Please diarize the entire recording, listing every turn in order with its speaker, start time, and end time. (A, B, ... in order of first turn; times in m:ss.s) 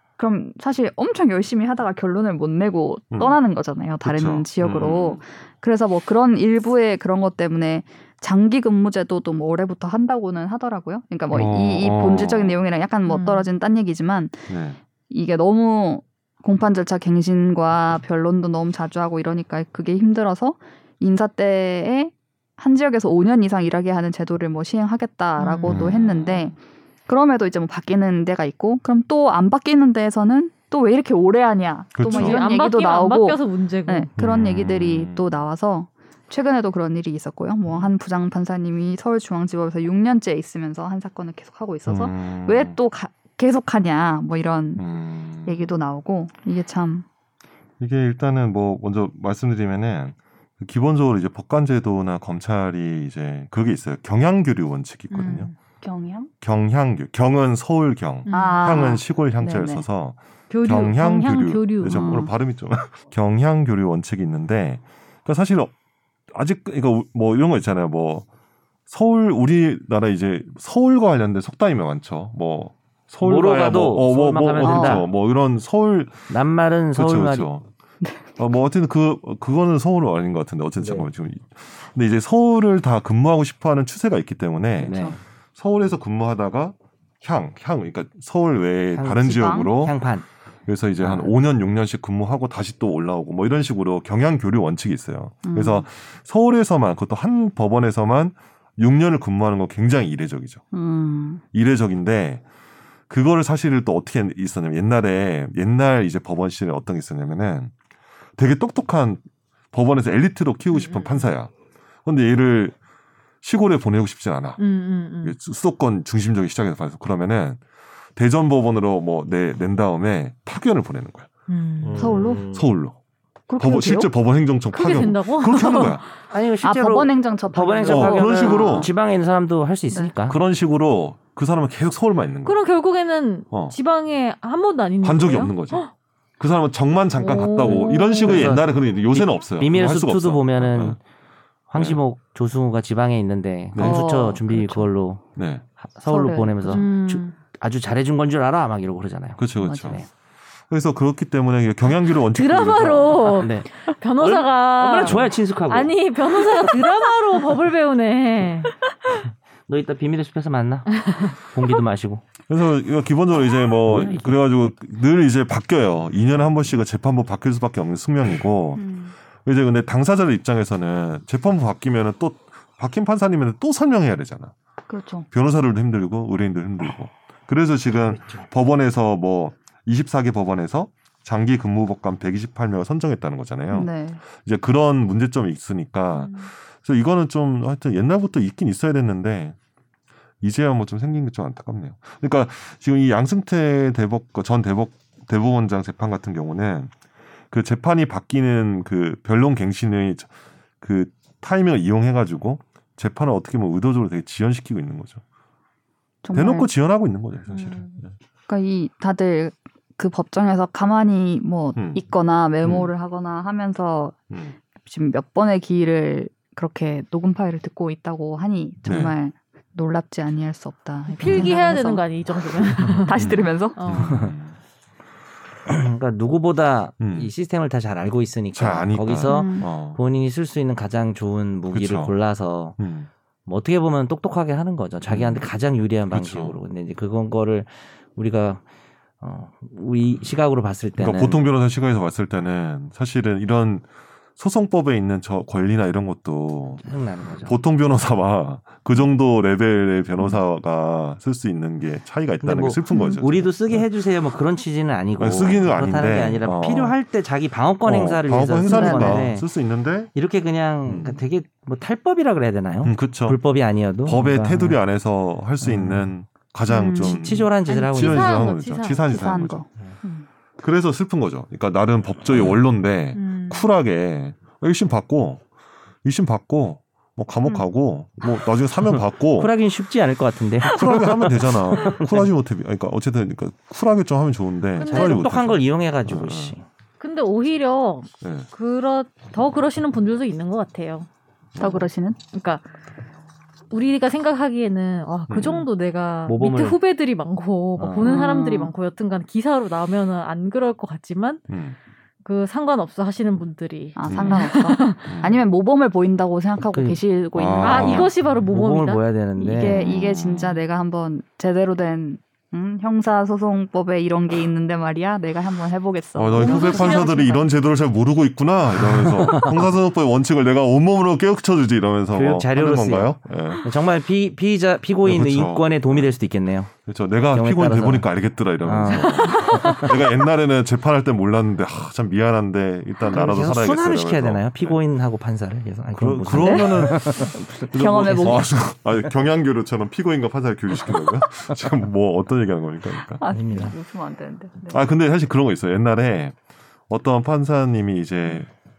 0:00.2-0:14.5 A
0:03.1-0:03.4 B
0:04.0-0:05.2 B
0:11.3-0:12.6 B
0:13.1-0:13.5 C
0:14.5-0:14.8 B
0:15.1-0:44.8 A
0:25.4-0:25.8 C
0:25.6-0:26.5 B
0:31.9-0:32.4 B
0:32.0-0:34.1 C
0:34.2-0:35.4 B
0:41.8-0:42.7 B
0:44.8-0:45.7 B
0:45.4-0:47.0 A
0:47.8-0:55.5 B
0:55.1-0:55.5 C
0:55.8-0:56.3 A
0:56.4-1:05.7 B
0:58.2-0:58.8 C
0:58.3-0:59.8 A
1:00.5-1:02.3 C
1:01.8-1:02.3 A
1:06.3-1:08.2 B
1:08.9-1:16.3 B
1:13.2-1:15.1 D
1:14.6-1:15.0 A
1:16.3-1:17.5 D
1:16.9-1:17.6 B
1:18.4-1:25.0 B
1:20.8-1:21.1 D
1:24.8-1:25.2 D
1:24.8-1:25.2 A
1:25.6-1:30.0 B
1:28.9-1:30.2 D
1:29.2-1:29.7 A
1:30.7-1:40.6 B
1:31.0-1:31.3 D
1:35.4-1:35.8 A
1:40.7-1:41.4 A
1:41.5-1:42.4 B
1:43.1-1:47.7 B
1:48.4-1:51.5 B
1:50.7-1:51.3 C
1:52.0-1:52.7 B
1:53.4-1:54.6 B
1:54.6-1:55.4 C
1:55.2-1:57.6 B
1:58.2-2:01.3 B
2:01.5-2:02.2 C
2:01.8-2:03.0 B
2:01.9-2:02.7 D
2:02.0-2:02.4 A
2:03.5-2:04.1 A
2:03.6-2:06.0 B
2:04.7-2:06.0 C
2:06.3-2:10.4 D
2:06.6-2:08.9 A
2:07.8-2:08.9 B
2:10.3-2:12.6 B
2:12.4-2:15.9 C
2:15.0-2:15.8 B
2:16.4-2:21.0 B
2:17.2-2:18.4 C
2:17.6-2:21.0 D
2:21.7-2:25.2 D
2:21.7-2:22.0 B
2:23.7-2:24.1 B
2:23.8-2:24.9 A
2:25.4-2:25.6 B
2:25.8-2:30.1 D
2:26.0-2:26.9 A
2:26.7-2:27.3 C
2:29.4-2:30.0 B
2:29.6-2:30.0 A
2:30.7-2:33.4 B
2:32.2-2:38.7 C
2:33.3-2:36.0 D
2:35.0-2:35.4 B
2:39.7-2:42.2 D
2:41.0-2:41.4 C
2:42.5-2:48.9 B
2:43.8-2:44.4 D
2:48.8-2:49.1 A
2:49.4-2:54.5 B
2:54.9-2:55.3 A
2:55.3-3:09.6 B
3:03.7-3:04.2 A
3:06.1-3:06.5 C
3:10.4-3:16.9 B
3:17.5-3:20.3 B
3:20.8-3:25.2 B
3:26.2-3:26.7 A
3:26.3-3:28.1 B
3:27.5-3:27.9 C
3:28.5-3:34.2 A
3:31.7-3:32.0 B
3:32.6-3:32.9 B
3:34.3-3:34.6 B
3:34.8-3:42.0 A
3:38.8-3:39.1 B
3:41.1-3:44.1 C
3:42.6-3:43.8 A
3:43.1-3:44.6 B
3:44.0-3:44.4 D
3:45.6-3:52.8 D
3:47.0-3:47.3 B
3:48.5-3:50.0 B
3:49.2-3:49.7 A
3:51.7-3:52.1 B
3:52.8-3:53.1 B
3:53.4-3:58.6 D
3:55.1-3:55.5 B
3:56.1-3:56.5 B
3:59.2-4:01.4 D
4:01.0-4:03.8 B
4:04.4-4:06.9 B
4:06.8-4:07.6 D
4:07.4-4:13.8 B
4:12.4-4:19.5 D
4:15.2-4:16.9 B
4:17.8-4:20.1 B
4:18.7-4:19.3 A
4:20.1-4:24.8 D
4:20.8-4:21.2 B
4:22.8-4:23.4 B
4:24.0-4:29.6 B
4:25.6-4:26.1 D
4:26.7-4:27.2 A
4:27.0-4:28.5 D
4:27.7-4:29.0 C
4:29.0-4:30.2 A
4:30.6-4:35.4 B
4:33.1-4:33.7 C
4:36.0-4:39.5 B
4:39.4-4:42.3 D
4:40.6-4:46.5 B
4:44.8-4:45.2 C
4:44.8-4:46.6 D
4:47.0-4:51.1 C
4:48.2-4:48.5 B
4:51.5-4:51.9 B
4:51.6-4:52.2 A
4:52.3-4:52.6 C
4:53.7-5:01.4 C
4:55.3-4:55.7 B
4:56.3-4:56.8 D
4:57.8-4:58.1 D
4:58.0-4:58.7 A
5:01.5-5:01.8 B
5:02.2-5:04.8 C
5:04.0-5:08.1 A
5:04.1-5:04.5 B
5:05.0-5:05.4 B
5:06.7-5:07.0 D
5:07.3-5:08.1 B
5:07.6-5:09.0 C
5:08.4-5:09.9 D
5:09.4-5:17.4 A
5:09.6-5:10.6 B
5:16.1-5:23.7 B
5:16.4-5:17.2 C
5:18.8-5:19.7 D
5:22.1-5:26.7 D
5:25.0-5:26.2 B
5:26.7-5:34.8 B
5:27.3-5:28.1 D
5:28.6-5:29.8 D
5:29.2-5:29.8 C
5:33.1-5:38.4 D
5:36.0-5:43.2 B
5:36.3-5:36.9 A
5:37.7-5:38.4 A
5:43.2-5:44.8 A
5:43.2-5:43.7 D
5:44.7-5:46.3 B
5:46.9-5:48.5 B